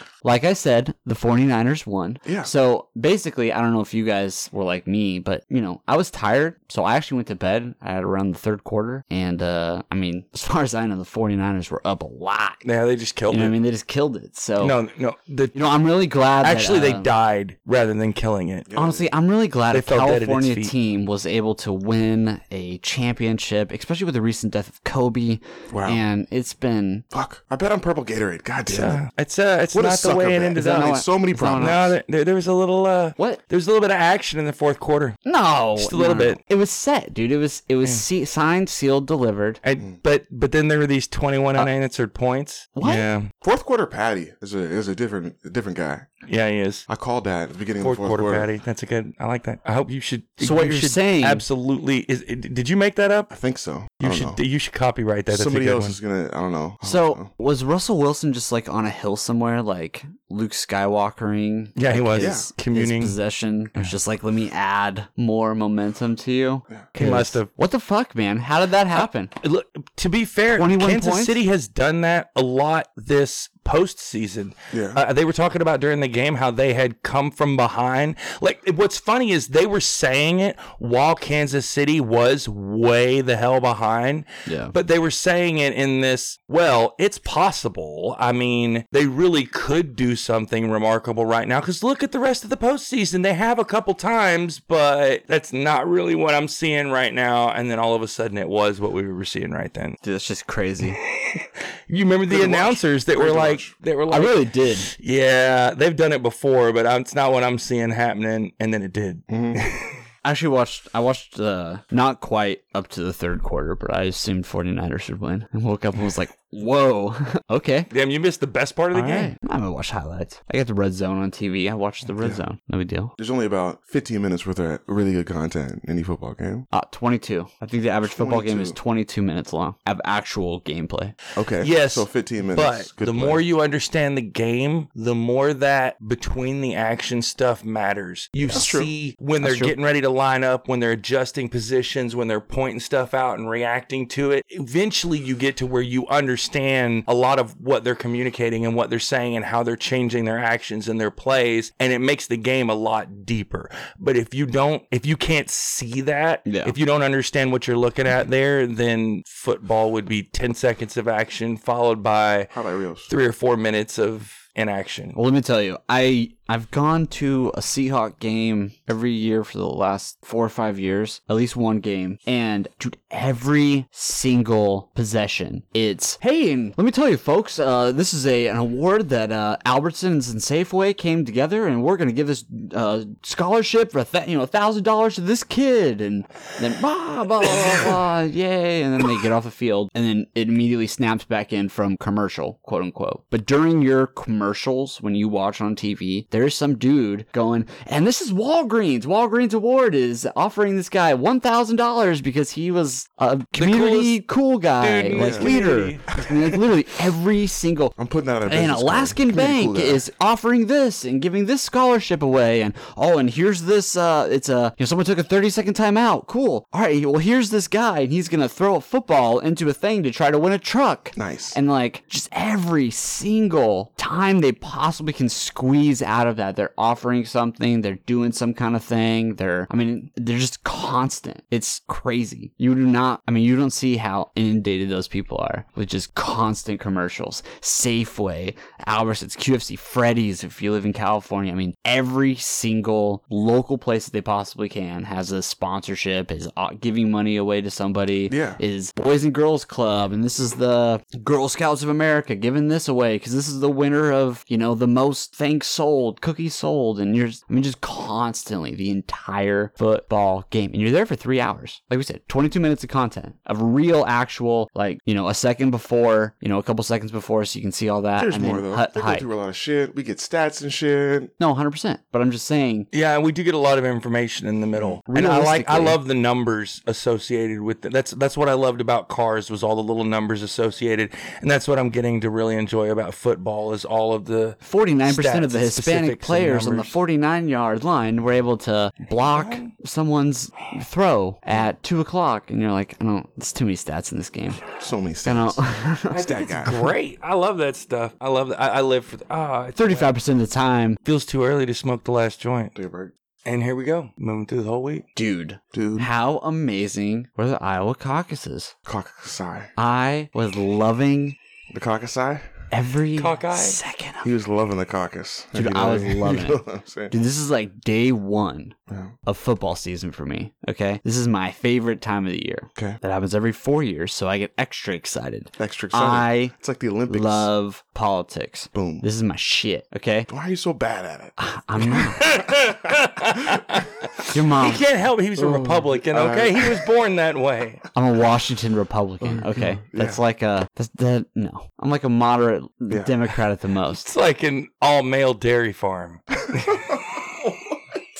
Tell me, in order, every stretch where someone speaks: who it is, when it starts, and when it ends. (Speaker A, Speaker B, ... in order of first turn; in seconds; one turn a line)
Speaker A: 0.2-12.6
Speaker B: 2.2-2.5
Speaker C: 12.6-13.6
Speaker A: 13.3-14.8
Speaker C: 14.6-15.6
Speaker A: 15.5-17.1
Speaker C: 16.4-18.7
Speaker B: 18.7-19.1
Speaker A: 18.7-27.1
Speaker C: 19.7-20.7
Speaker B: 25.7-26.0
Speaker B: 27.1-29.0
Speaker C: 28.7-31.0
Speaker B: 29.7-32.0
Speaker A: 30.5-31.9
Speaker C: 31.6-35.2
Speaker A: 33.2-33.4
Speaker A: 35.2-39.6
Speaker C: 35.8-36.4
Speaker C: 39.6-43.3
Speaker A: 42.8-43.1
Speaker B: 43.4-46.1
Speaker C: 46.3-46.9
Speaker B: 46.9-48.5
Speaker C: 47.8-53.3
Speaker A: 50.4-51.5
Speaker B: 53.3-54.4
Speaker C: 54.0-56.0
Speaker B: 55.3-57.3
Speaker A: 56.8-69.3
Speaker C: 61.8-63.2
Speaker B: 62.2-62.5
Speaker C: 67.0-67.5
Speaker C: 69.0-100.0
Speaker A: 70.5-71.4
Speaker B: 74.7-75.0
Speaker A: 84.5-84.8
Speaker A: 100.0-101.0
Speaker C: 101.0-110.0
Speaker B: 102.3-103.7
Speaker A: 104.1-104.9
Speaker B: 109.3-109.7
Speaker A: 110.2-117.9
Speaker C: 117.9-119.3
Speaker A: 118.9-123.1
Speaker B: 122.1-122.4
Speaker B: 123.2-126.7
Speaker A: 126.7-131.2
Speaker B: 128.0-128.8
Speaker B: 131.3-133.5
Speaker C: 131.6-162.5
Speaker B: 138.5-138.9
Speaker A: 139.4-139.7
Speaker A: 156.5-156.8
Speaker B: 162.5-163.1
Speaker C: 163.1-165.2
Speaker A: 165.1-208.0
Speaker C: 187.6-187.9
Speaker C: 203.6-204.2
Speaker C: 204.8-206.7
Speaker B: 205.1-205.5
Speaker B: 208.0-210.1
Speaker A: 208.5-269.3
Speaker B: 221.2-221.6
Speaker B: 248.3-248.6
Speaker B: 268.2-271.3
Speaker A: 271.4-272.9
Speaker C: 272.9-286.9
Speaker A: 275.1-276.0
Speaker A: 284.6-294.6
Speaker B: 294.6-296.8
Speaker A: 295.2-296.9
Speaker C: 296.2-300.1
Speaker A: 299.8-301.0
Speaker C: 301.0-302.7
Speaker B: 302.8-303.1
Speaker C: 303.4-305.1
Speaker A: 305.1-308.7
Speaker B: 305.7-306.1
Speaker B: 308.9-309.7
Speaker A: 309.8-311.4
Speaker B: 311.7-312.6
Speaker A: 312.7-314.3
Speaker C: 313.2-313.8
Speaker B: 314.2-317.1
Speaker A: 315.5-326.5
Speaker B: 318.9-319.2
Speaker B: 322.8-323.0
Speaker B: 325.6-327.5
Speaker A: 327.1-330.3
Speaker B: 328.7-329.1
Speaker B: 330.3-333.6
Speaker A: 331.4-332.3
Speaker C: 331.9-337.9
Speaker A: 334.3-334.8
Speaker B: 335.4-336.9
Speaker A: 337.9-344.1
Speaker B: 339.2-340.2
Speaker C: 343.9-347.3
Speaker B: 346.5-347.0